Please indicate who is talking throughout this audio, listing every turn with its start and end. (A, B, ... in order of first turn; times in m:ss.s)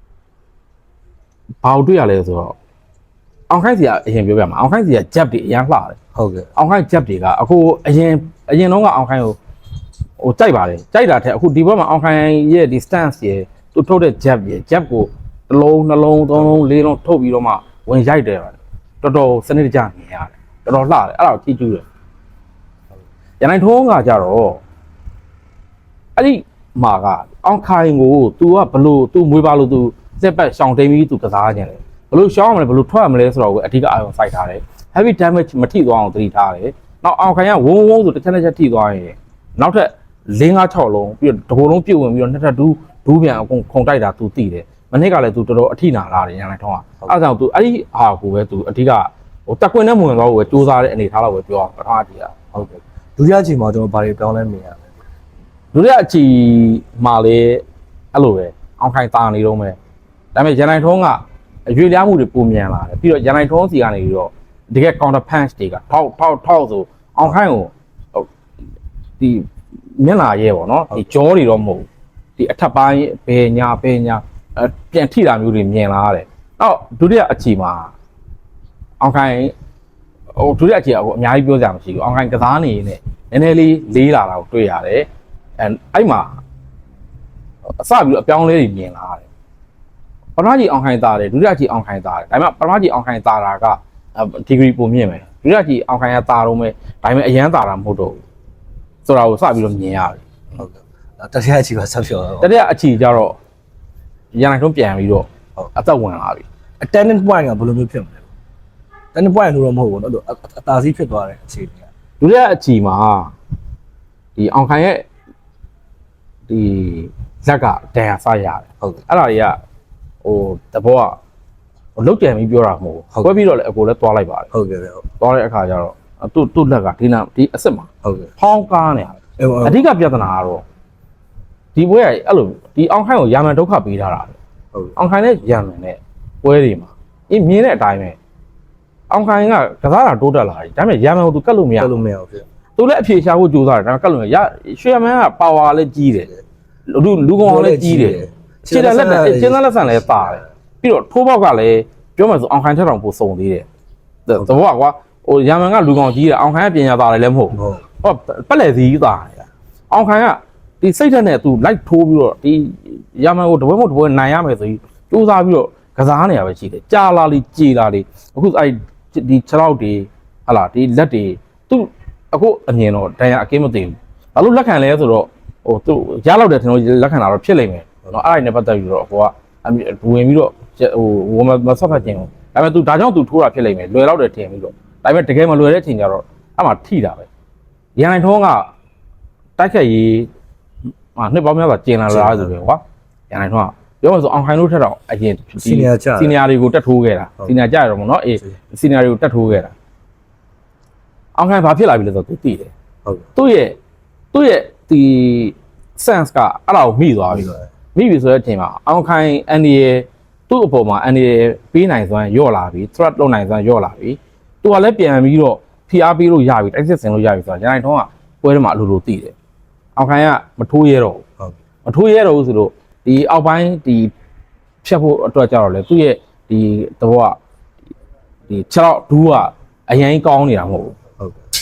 0:01.6-0:02.6 A
0:03.5-0:06.0 A
0:06.2-0:06.5 B
0:06.6-0:09.4 A
0:10.2-0:21.9 A
0:23.4-0:24.6 A
0:26.2-0:52.3 A
0:52.5-0:54.9 B
0:55.7-0:59.8 A
1:00.4-1:08.3 A
1:09.2-1:17.9 A
1:19.0-1:19.5 A
1:20.4-1:26.4 A
1:27.8-1:29.3 A
1:30.4-1:38.2 A
1:39.0-1:40.3 A
1:40.6-1:42.5 B
1:42.4-1:43.4 A
1:44.3-1:46.4 A
1:46.8-1:48.3 B
1:49.1-1:51.9 B
1:52.2-1:53.3 A
1:54.4-1:55.1 A
1:56.5-1:59.6 A
2:00.2-2:01.2 A
2:02.0-2:04.5 A
2:04.5-2:05.0 B
2:05.2-2:10.6 A
2:08.0-2:08.3 B
2:09.4-2:09.8 B
2:11.8-2:14.4 A
2:15.0-2:18.2 A
2:19.1-2:21.9 A
2:21.8-2:22.4 B
2:22.8-2:26.3 A
2:26.9-2:33.7 A
2:27.4-2:30.4 B
2:34.3-3:07.3 A
2:37.5-2:37.8 B
3:08.0-3:08.7 A
3:09.6-3:10.3 A
3:11.2-3:19.7 A
3:12.1-3:12.5 B
3:15.6-3:16.4 B
3:21.4-3:22.7 A
3:23.4-3:23.8 A
3:24.3-3:39.3 A
3:27.3-3:27.7 B
3:40.0-3:41.2 A
3:41.9-3:44.1 A
3:44.8-3:47.4 A
3:48.5-3:51.0 A